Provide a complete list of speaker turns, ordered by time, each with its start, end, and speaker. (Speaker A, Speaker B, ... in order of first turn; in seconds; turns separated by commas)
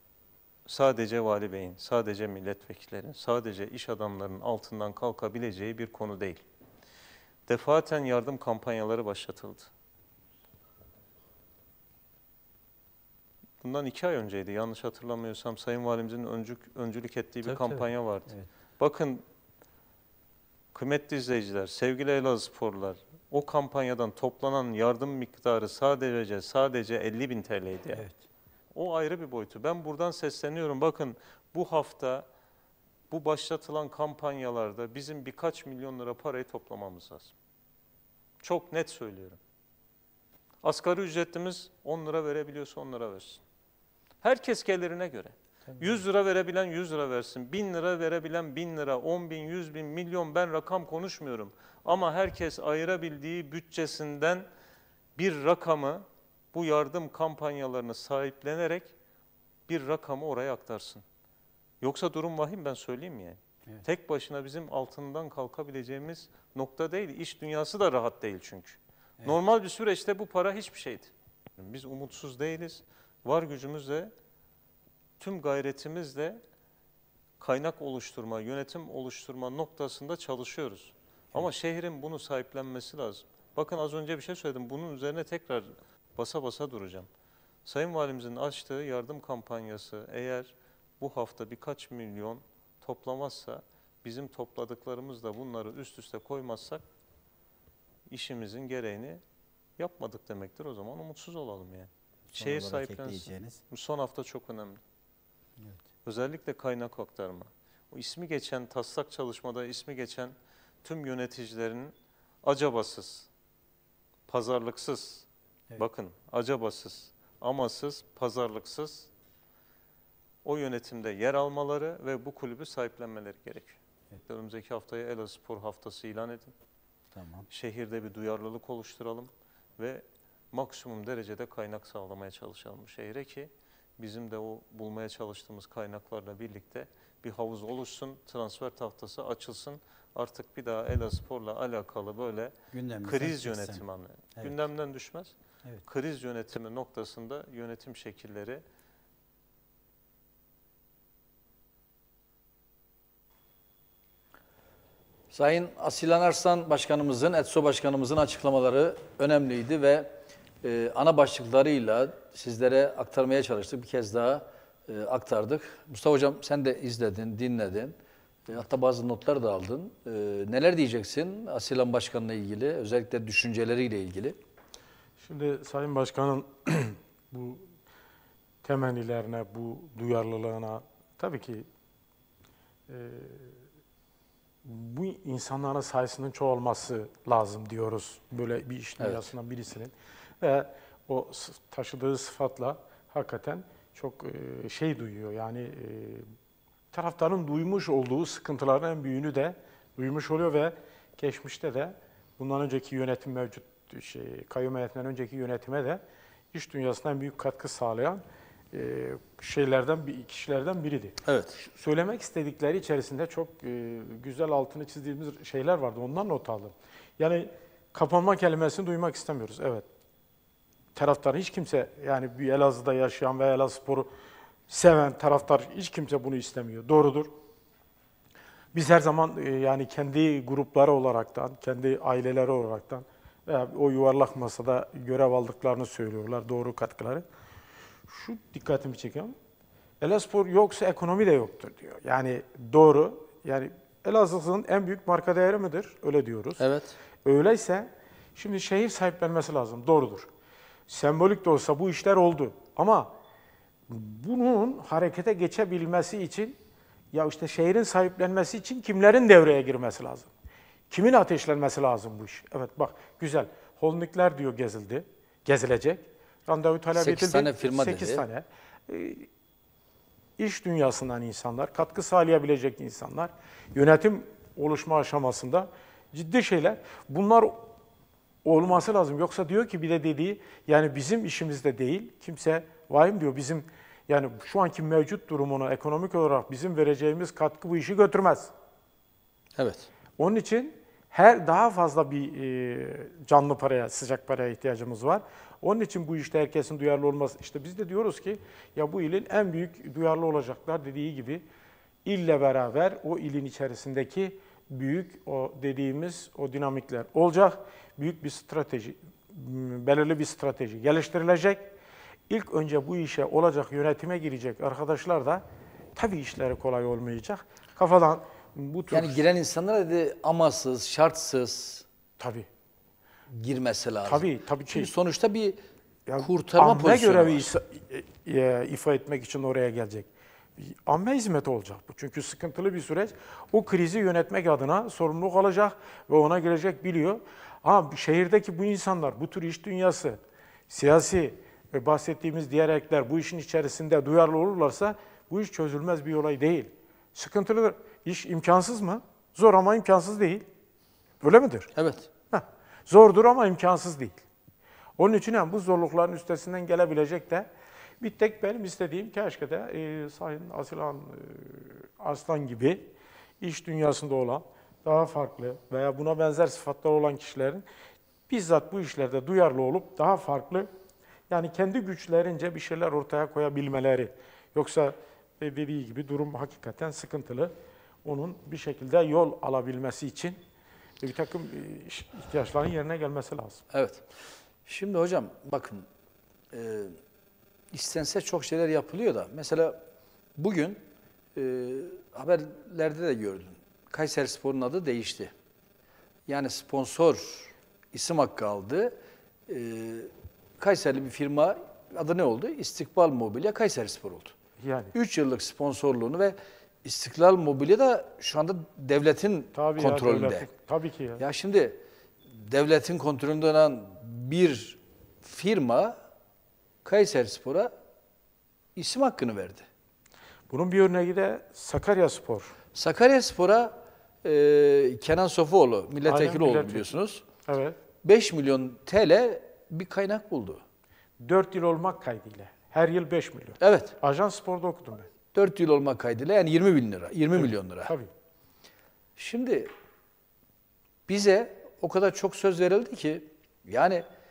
Speaker A: 0.7-6.4, Speaker A: 7.5-9.7, Speaker A: 13.6-19.2, Speaker B: 17.4-18.5, Speaker A: 20.7-28.1, Speaker B: 27.9-28.2, Speaker A: 28.7-32.3, Speaker A: 33.1-37.3, Speaker A: 38.4-39.4, Speaker A: 40.6-43.4, Speaker A: 44.2-54.5, Speaker A: 55.2-58.9, Speaker A: 59.7-61.0, Speaker A: 61.8-74.1, Speaker A: 75.2-76.4, Speaker A: 77.4-87.1, Speaker A: 87.7-96.8, Speaker A: 98.1-99.2, Speaker A: 99.8-104.8, Speaker B: 102.3-103.6, Speaker A: 106.0-113.3, Speaker A: 114.3-119.1, Speaker A: 120.5-126.5, Speaker B: 127.1-127.5, Speaker A: 127.5-145.3, Speaker B: 142.7-143.8, Speaker A: 145.8-148.6, Speaker C: 155.3-167.9, Speaker C: 168.5-174.4, Speaker D: 175.2-177.7, Speaker D: 178.6-181.7, Speaker D: 182.9-183.6, Speaker D: 184.6-196.3, Speaker C: 189.0-189.3, Speaker D: 196.9-219.9, Speaker C: 211.3-211.6, Speaker D: 220.9-224.1, Speaker D: 224.7-227.4, Speaker D: 228.7-237.2, Speaker D: 238.1-239.4, Speaker D: 240.0-246.6, Speaker C: 246.6-247.0, Speaker D: 247.2-250.3, Speaker D: 250.9-253.2, Speaker D: 253.9-256.6, Speaker D: 257.1-260.3, Speaker D: 260.9-269.3, Speaker C: 266.9-268.2, Speaker D: 270.4-277.7, Speaker D: 278.4-288.5, Speaker C: 289.6-289.9, Speaker D: 290.2-301.4, Speaker D: 302.1-311.7, Speaker D: 312.3-315.4, Speaker D: 316.0-319.2, Speaker C: 318.9-321.9, Speaker D: 322.2-322.5, Speaker C: 323.3-325.6, Speaker D: 324.1-324.9, Speaker D: 326.1-350.4, Speaker C: 326.2-327.5, Speaker D: 351.2-351.7, Speaker C: 351.8-352.1, Speaker D: 352.3-354.2, Speaker D: 355.0-357.5, Speaker D: 358.0-362.9, Speaker D: 363.4-367.6, Speaker D: 368.3-370.7, Speaker D: 371.3-380.4, Speaker D: 381.0-383.6, Speaker C: 383.7-384.1, Speaker C: 384.7-385.9, Speaker C: 386.5-387.0, Speaker C: 387.7-389.8, Speaker C: 390.4-390.8, Speaker C: 391.4-395.3, Speaker C: 396.3-398.9, Speaker C: 399.5-404.4, Speaker D: 404.6-404.9, Speaker C: 404.9-410.5, Speaker D: 409.5-411.2, Speaker C: 411.2-411.8, Speaker C: 412.3-416.0, Speaker C: 416.9-417.7, Speaker C: 418.8-419.7, Speaker D: 420.5-422.5, Speaker C: 422.8-427.2, Speaker D: 426.0-426.9, Speaker D: 427.4-427.8, Speaker C: 428.0-430.6, Speaker D: 431.2-435.1, Speaker C: 433.6-433.9, Speaker C: 435.3-437.9, Speaker D: 437.3-438.1, Speaker C: 439.2-439.7, Speaker C: 441.1-444.1